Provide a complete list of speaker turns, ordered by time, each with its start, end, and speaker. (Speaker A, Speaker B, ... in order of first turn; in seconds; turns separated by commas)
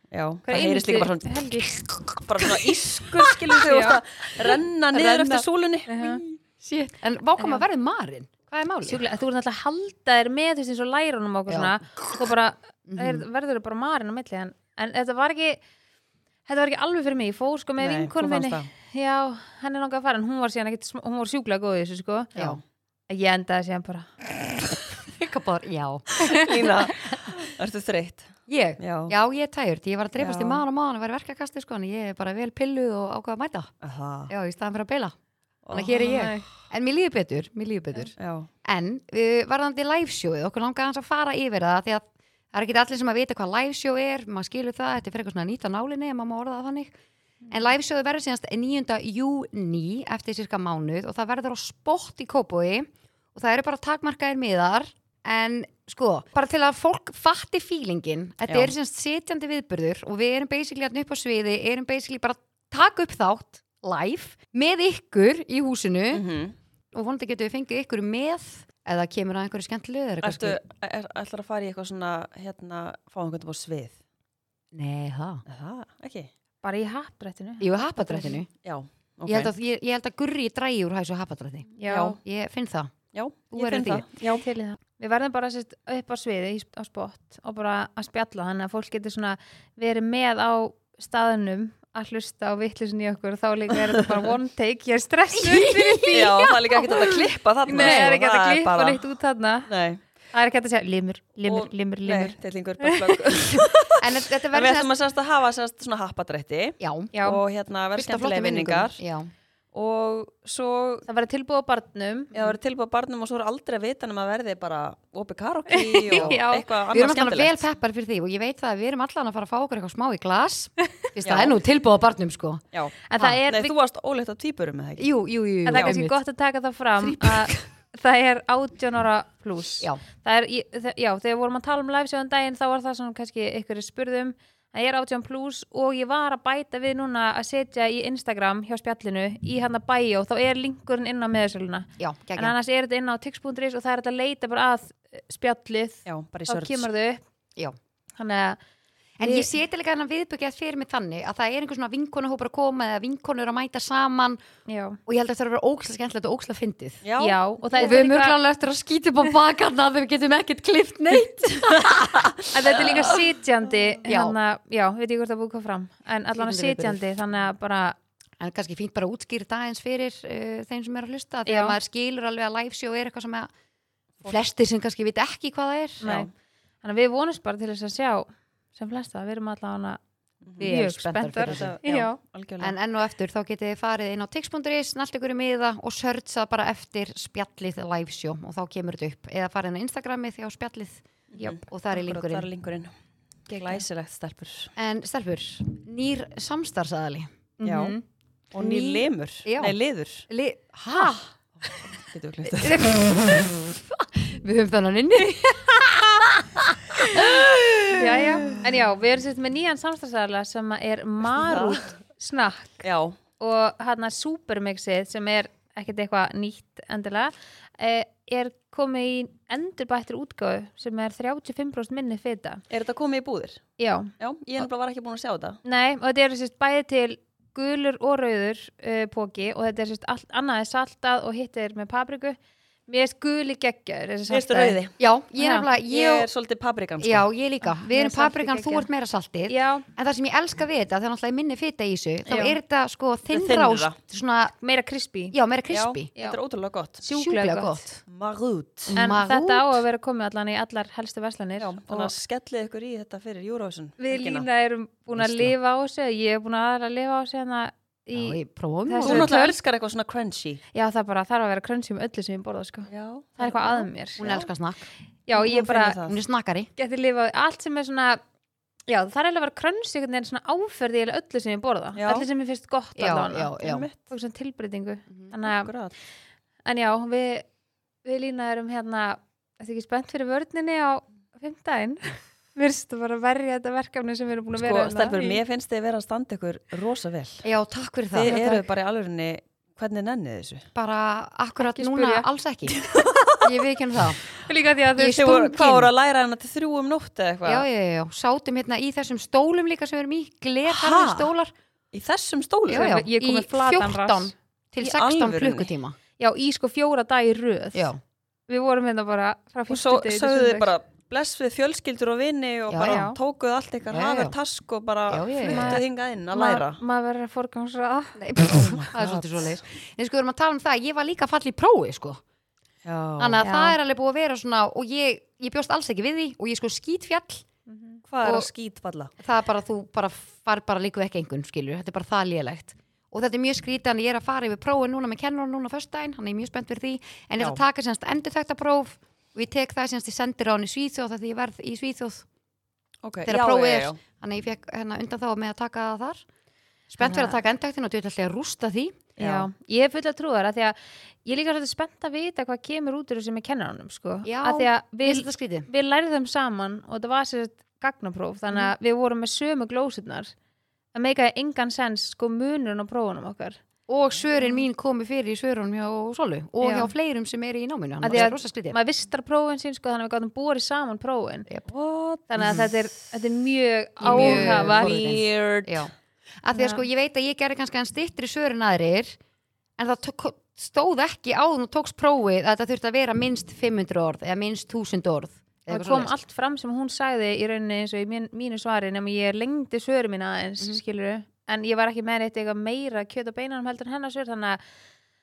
Speaker A: 0.1-5.9, Speaker B: 0.5-1.7, Speaker C: 1.8-3.4, Speaker B: 3.6-4.0, Speaker B: 5.0-6.2, Speaker C: 6.0-9.0, Speaker B: 7.4-7.6, Speaker B: 8.8-15.6, Speaker C: 11.5-12.1, Speaker C: 12.9-13.2, Speaker B: 16.5-22.3, Speaker A: 17.8-18.7, Speaker B: 23.1-24.1, Speaker C: 25.1-26.9, Speaker B: 26.2-26.5, Speaker A: 26.3-29.1, Speaker C: 28.5-33.7, Speaker A: 30.2-30.6, Speaker A: 33.8-34.3, Speaker C: 34.3-35.2, Speaker A: 35.6-36.3, Speaker C: 35.7-47.0, Speaker B: 36.0-36.5, Speaker A: 38.2-38.5, Speaker C: 47.5-66.3, Speaker A: 66.1-66.5, Speaker C: 66.9-70.6, Speaker A: 70.2-74.0, Speaker C: 74.7-75.4, Speaker A: 75.5-76.3, Speaker B: 76.6-78.4, Speaker C: 77.6-78.5, Speaker A: 78.6-79.5, Speaker C: 79.3-82.9, Speaker B: 81.8-82.2, Speaker A: 81.8-82.2, Speaker A: 83.1-84.4, Speaker C: 83.5-84.1, Speaker B: 84.2-99.7, Speaker C: 95.4-96.6, Speaker A: 96.1-99.0, Speaker C: 97.7-98.2, Speaker A: 99.7-100.0, Speaker B: 100.3-103.2, Speaker A: 101.5-109.0, Speaker C: 104.0-104.9, Speaker C: 106.8-107.1, Speaker B: 107.1-107.4, Speaker C: 108.0-109.3, Speaker A: 109.7-111.1, Speaker B: 111.1-112.6, Speaker A: 112.3-117.6, Speaker B: 115.7-116.7, Speaker C: 116.1-122.6, Speaker A: 121.2-121.6, Speaker B: 123.1-123.7, Speaker A: 123.5-125.1, Speaker C: 125.0-126.2, Speaker B: 125.7-147.2, Speaker A: 125.7-126.0, Speaker C: 127.0-127.5, Speaker C: 142.0-142.6, Speaker A: 146.1-146.9, Speaker B: 148.2-148.6, Speaker C: 149.2-154.4, Speaker B: 149.2-149.5, Speaker B: 154.7-155.0, Speaker C: 155.1-157.0, Speaker A: 157.0-157.9, Speaker B: 157.2-158.4, Speaker C: 157.8-163.0, Speaker A: 161.8-163.2, Speaker B: 162.5-168.0, Speaker C: 164.1-164.4, Speaker C: 166.3-167.0, Speaker C: 168.4-173.5, Speaker B: 171.5-171.8, Speaker C: 174.2-176.1, Speaker B: 176.0-176.3, Speaker B: 176.8-180.0, Speaker A: 180.4-180.8, Speaker C: 180.6-181.8, Speaker B: 180.6-182.2, Speaker A: 181.4-182.8, Speaker C: 182.6-191.0, Speaker A: 191.4-192.9, Speaker C: 191.6-192.5, Speaker B: 193.5-193.8, Speaker A: 193.6-194.7, Speaker C: 194.8-197.3, Speaker B: 197.6-198.0, Speaker A: 197.7-198.0, Speaker A: 198.5-200.3, Speaker C: 198.6-199.8, Speaker C: 200.3-201.2, Speaker A: 201.9-202.9, Speaker C: 202.5-208.5, Speaker B: 207.9-212.8, Speaker A: 211.3-211.9, Speaker A: 212.8-213.2, Speaker B: 213.4-222.6, Speaker A: 222.7-223.6, Speaker B: 223.8-224.1, Speaker A: 224.2-225.6, Speaker B: 225.7-234.8, Speaker A: 234.3-235.0, Speaker C: 235.0-236.3, Speaker B: 235.4-235.7, Speaker A: 235.9-237.3, Speaker C: 237.0-244.5, Speaker B: 237.6-238.9, Speaker B: 239.5-239.9, Speaker B: 242.3-242.6, Speaker A: 243.3-243.9, Speaker B: 244.6-245.3, Speaker C: 245.3-246.1, Speaker A: 245.7-247.1, Speaker B: 247.0-248.0, Speaker C: 247.1-247.8, Speaker A: 248.1-249.0, Speaker C: 248.9-249.8, Speaker B: 248.9-252.1, Speaker A: 251.6-254.5, Speaker B: 254.0-259.6, Speaker C: 255.1-255.5, Speaker C: 258.1-259.3, Speaker A: 259.0-260.6, Speaker B: 260.7-264.4, Speaker A: 262.9-264.5, Speaker C: 264.2-264.9, Speaker B: 265.3-266.0, Speaker A: 265.4-266.2, Speaker C: 266.0-266.7, Speaker B: 266.8-268.2, Speaker B: 268.9-275.7, Speaker A: 272.0-272.3, Speaker C: 273.0-273.9, Speaker A: 273.6-274.0, Speaker A: 275.4-276.0, Speaker B: 276.6-277.5, Speaker B: 278.0-285.4, Speaker A: 284.6-287.4, Speaker C: 287.4-288.4, Speaker A: 288.1-290.7, Speaker B: 288.3-288.6, Speaker C: 290.8-292.9, Speaker B: 291.6-292.3, Speaker A: 292.7-293.7, Speaker C: 293.4-294.2, Speaker B: 294.5-295.3, Speaker C: 295.0-295.9, Speaker A: 295.0-297.7, Speaker C: 297.4-301.5, Speaker A: 300.7-301.3, Speaker A: 301.9-302.9, Speaker C: 302.7-306.0, Speaker B: 302.7-304.3, Speaker A: 304.8-305.7, Speaker B: 306.2-307.9, Speaker B: 308.5-310.7, Speaker A: 309.7-316.8, Speaker C: 312.7-313.1, Speaker B: 312.8-313.2, Speaker C: 313.9-314.4, Speaker C: 315.1-315.8, Speaker B: 315.4-318.8, Speaker C: 318.2-322.2, Speaker A: 318.4-319.6, Speaker A: 322.8-323.4, Speaker C: 323.2-327.4, Speaker B: 323.4-323.8, Speaker B: 327.7-328.0, Speaker A: 328.1-329.1, Speaker C: 328.2-328.5, Speaker C: 329.2-342.2, Speaker A: 343.0-344.0, Speaker C: 343.2-346.2, Speaker C: 346.9-349.1, Speaker B: 347.0-347.4, Speaker A: 349.2-349.5, Speaker B: 349.2-360.3, Speaker C: 354.2-355.7, Speaker B: 360.9-363.6, Speaker C: 363.9-368.8, Speaker B: 366.6-366.9, Speaker B: 368.0-371.5, Speaker A: 371.7-372.7, Speaker B: 372.3-374.9, Speaker A: 374.0-375.9, Speaker C: 374.0-379.2, Speaker B: 376.5-376.8, Speaker C: 379.8-386.1, Speaker B: 385.7-394.6